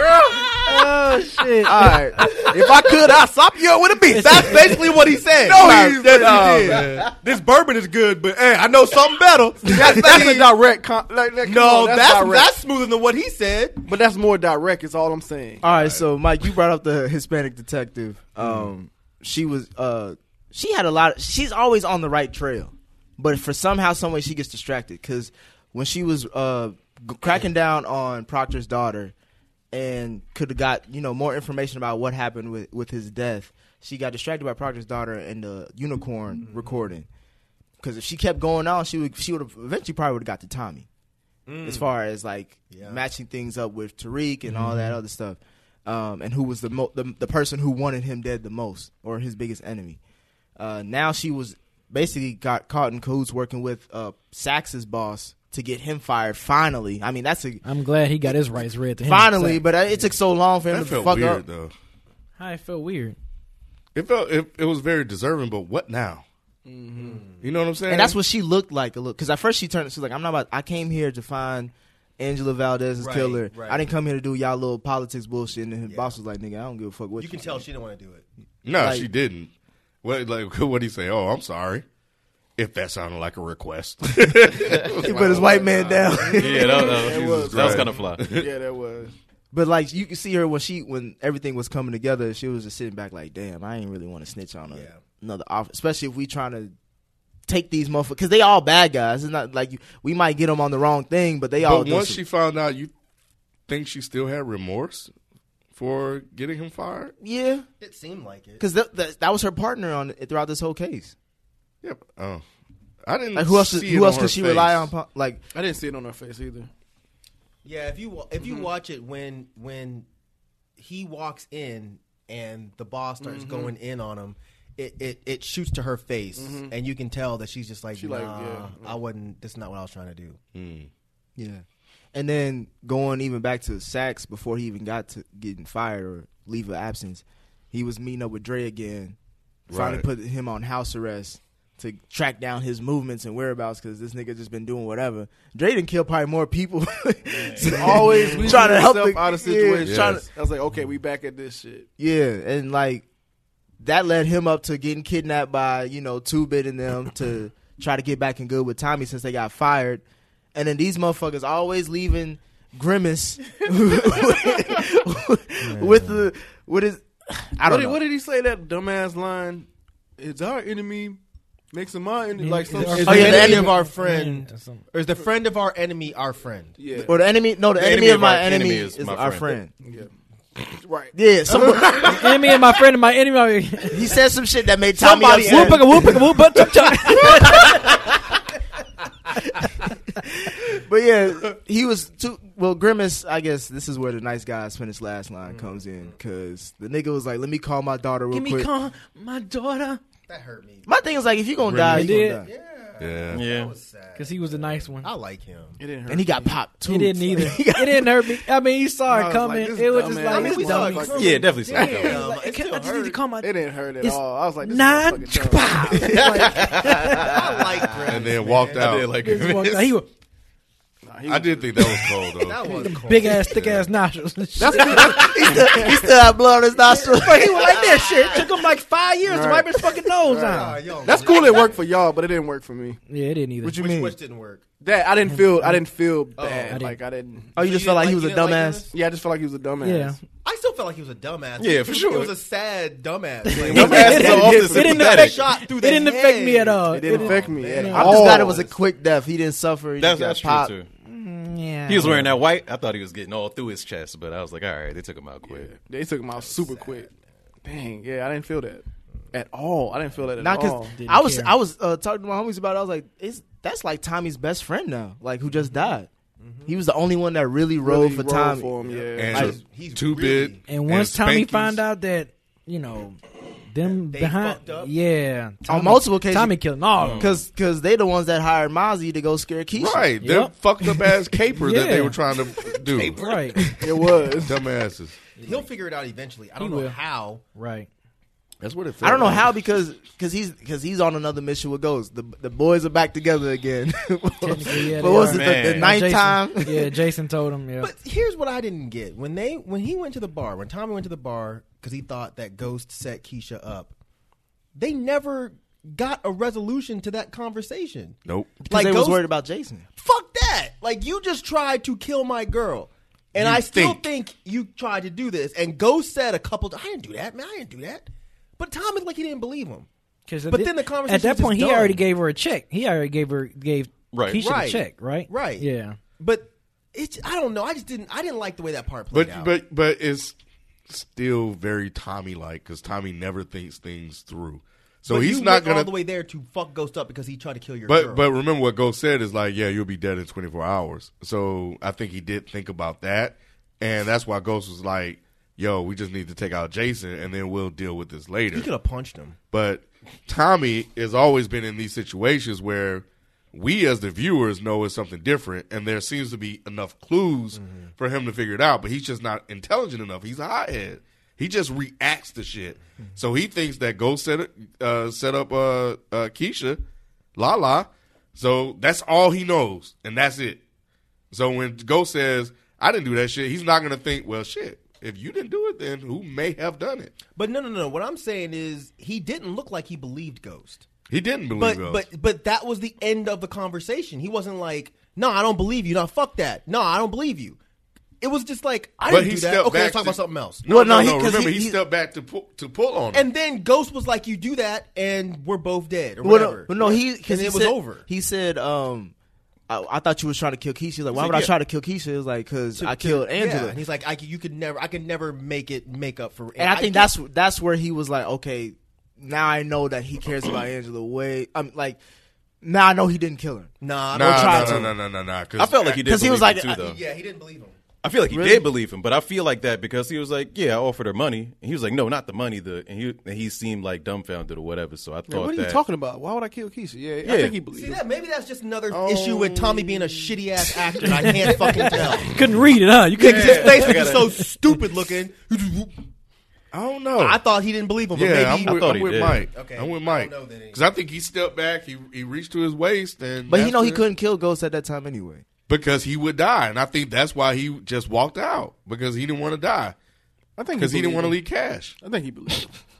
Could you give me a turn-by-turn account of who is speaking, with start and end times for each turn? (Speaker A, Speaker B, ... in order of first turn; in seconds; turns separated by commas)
Speaker A: 0.3-0.6, Speaker B: 0.6-1.7, Speaker C: 1.6-4.8, Speaker D: 1.7-3.1, Speaker B: 4.1-4.6, Speaker A: 4.2-10.5, Speaker C: 5.5-6.7, Speaker D: 5.6-6.2, Speaker E: 5.6-7.1, Speaker C: 9.7-12.5, Speaker A: 11.4-13.8, Speaker C: 13.8-15.6, Speaker D: 15.6-29.1, Speaker E: 15.7-16.0, Speaker D: 29.7-37.1, Speaker A: 36.4-36.8, Speaker D: 37.8-40.9, Speaker A: 41.5-41.9, Speaker D: 41.6-50.0, Speaker A: 42.7-43.0, Speaker D: 50.6-57.6, Speaker B: 57.6-59.6, Speaker D: 59.0-61.4, Speaker E: 60.7-61.7, Speaker B: 62.4-63.1, Speaker E: 63.9-66.2, Speaker C: 66.7-67.2, Speaker A: 66.9-67.4, Speaker E: 67.4-68.2, Speaker D: 67.9-77.7, Speaker A: 73.0-73.8, Speaker A: 75.9-76.2, Speaker A: 77.2-78.2, Speaker E: 78.6-79.5, Speaker D: 78.7-79.1, Speaker E: 80.0-81.8, Speaker E: 82.6-85.6, Speaker D: 84.9-86.9, Speaker C: 85.2-89.1, Speaker A: 85.6-86.0, Speaker F: 86.4-88.2, Speaker E: 86.9-88.5, Speaker D: 89.5-96.7, Speaker A: 94.7-95.0, Speaker D: 97.5-102.2, Speaker E: 101.6-102.9, Speaker E: 103.7-105.1, Speaker E: 105.7-107.1, Speaker D: 107.2-107.7, Speaker A: 107.8-108.6, Speaker D: 108.6-111.1, Speaker E: 111.8-112.4, Speaker E: 113.0-114.9, Speaker D: 113.3-115.4, Speaker C: 115.5-116.7, Speaker A: 117.6-120.1, Speaker C: 118.4-118.7, Speaker A: 120.8-130.4, Speaker C: 123.2-123.7, Speaker C: 126.4-126.7, Speaker C: 127.9-129.0, Speaker E: 130.5-130.9, Speaker D: 131.4-139.2, Speaker E: 139.7-140.0, Speaker D: 139.7-150.2, Speaker C: 147.6-151.9, Speaker E: 149.8-150.2, Speaker D: 152.0-153.0, Speaker D: 153.8-160.0, Speaker D: 160.5-168.0, Speaker A: 165.6-166.2, Speaker C: 167.6-169.7, Speaker C: 170.2-171.2, Speaker C: 171.7-173.7, Speaker B: 172.4-174.8, Speaker A: 172.9-177.1, Speaker D: 173.0-173.8, Speaker C: 176.8-177.2, Speaker D: 177.0-179.7, Speaker F: 177.7-179.6, Speaker C: 179.8-180.1, Speaker C: 180.7-181.8, Speaker D: 181.1-182.5, Speaker B: 182.0-184.1, Speaker D: 183.9-186.2, Speaker A: 185.0-186.2, Speaker B: 185.2-187.8, Speaker D: 187.3-187.6, Speaker D: 190.2-198.7, Speaker A: 195.5-196.1, Speaker B: 198.3-200.0, Speaker A: 200.3-201.0, Speaker D: 200.9-202.5, Speaker E: 201.7-202.1, Speaker B: 201.8-202.4, Speaker A: 202.4-205.8, Speaker E: 203.0-203.4, Speaker F: 203.3-203.7, Speaker B: 204.2-205.1, Speaker C: 205.8-206.5, Speaker D: 206.1-208.4, Speaker B: 206.9-211.2, Speaker C: 209.1-212.0, Speaker A: 210.3-213.2, Speaker F: 211.1-212.3, Speaker B: 211.7-217.4, Speaker C: 213.4-216.0, Speaker F: 216.0-217.5, Speaker A: 216.4-218.9, Speaker E: 218.1-219.2, Speaker F: 218.7-220.0, Speaker B: 219.2-220.1, Speaker C: 221.1-222.1, Speaker E: 221.3-223.9, Speaker A: 222.4-223.6, Speaker B: 222.6-225.3, Speaker C: 224.6-226.1, Speaker D: 224.9-227.8, Speaker B: 227.0-230.8, Speaker A: 227.5-228.4, Speaker C: 229.2-229.7, Speaker C: 230.3-233.0, Speaker A: 230.3-231.8, Speaker B: 233.1-233.8, Speaker D: 233.6-234.2, Speaker A: 233.7-234.6, Speaker C: 234.8-237.5, Speaker B: 235.3-235.8, Speaker A: 236.4-236.8, Speaker B: 236.7-237.0, Speaker D: 237.5-238.9, Speaker A: 237.6-238.9, Speaker C: 238.9-240.2, Speaker B: 239.8-240.2, Speaker A: 240.4-248.8, Speaker F: 241.6-242.3, Speaker B: 243.4-248.3, Speaker F: 243.6-245.5, Speaker C: 243.7-245.0, Speaker C: 246.9-248.7, Speaker D: 247.9-250.7, Speaker F: 250.0-250.9, Speaker B: 251.0-252.3, Speaker F: 251.9-255.8, Speaker C: 255.5-257.1, Speaker A: 256.4-257.1, Speaker C: 257.6-260.9, Speaker D: 260.4-266.1, Speaker B: 261.0-261.5, Speaker A: 266.4-266.7, Speaker D: 266.6-268.7, Speaker C: 267.8-269.5, Speaker A: 268.8-270.6, Speaker E: 269.1-271.8, Speaker B: 270.7-273.2, Speaker B: 273.7-277.3, Speaker A: 273.8-274.9, Speaker D: 275.7-276.6, Speaker F: 276.9-277.4, Speaker D: 277.2-280.1, Speaker E: 279.8-283.2, Speaker B: 280.2-280.9, Speaker B: 281.5-282.2, Speaker B: 282.9-283.6, Speaker D: 283.5-284.1, Speaker C: 283.8-284.6, Speaker E: 284.4-285.2, Speaker A: 285.4-287.4, Speaker B: 286.6-287.0, Speaker B: 287.6-287.9, Speaker E: 288.6-289.5, Speaker D: 289.0-297.0, Speaker B: 294.4-297.9, Speaker F: 295.1-296.0, Speaker A: 297.8-303.9, Speaker A: 304.8-309.2, Speaker E: 308.2-308.6, Speaker D: 308.6-309.9, Speaker A: 310.0-319.9, Speaker E: 313.4-314.0, Speaker B: 320.3-326.0, Speaker A: 320.5-322.0, Speaker F: 324.1-324.4, Speaker A: 324.4-325.6, Speaker A: 326.2-329.5, Speaker E: 329.1-330.4, Speaker E: 330.9-335.9, Speaker A: 335.1-338.3, Speaker E: 337.9-348.7, Speaker A: 348.5-349.4, Speaker E: 349.5-366.8, Speaker A: 357.5-357.9, Speaker E: 367.4-370.6, Speaker E: 371.3-377.1, Speaker A: 377.4-380.9, Speaker E: 381.1-382.1, Speaker A: 381.5-387.6, Speaker A: 388.2-390.6, Speaker E: 389.0-393.3, Speaker D: 390.7-391.8, Speaker A: 393.1-398.0, Speaker D: 396.2-399.1, Speaker D: 399.7-403.8, Speaker F: 401.1-401.5, Speaker A: 402.8-407.1, Speaker D: 406.6-412.0, Speaker D: 412.6-414.9, Speaker A: 413.8-414.9, Speaker E: 414.1-415.9, Speaker F: 415.6-417.0, Speaker D: 416.0-416.8, Speaker A: 416.8-417.8, Speaker F: 418.0-425.8, Speaker D: 418.3-418.6, Speaker C: 425.3-428.0, Speaker F: 427.2-427.6, Speaker A: 427.7-432.4, Speaker E: 428.9-430.3, Speaker B: 431.0-434.4, Speaker A: 433.2-435.9, Speaker F: 433.2-434.3, Speaker E: 436.7-437.4, Speaker A: 437.2-438.9, Speaker E: 438.1-444.0, Speaker F: 438.6-439.5, Speaker A: 439.5-440.8, Speaker D: 443.5-445.4, Speaker E: 445.7-449.9, Speaker C: 450.6-451.4, Speaker E: 450.8-452.0, Speaker C: 452.0-452.7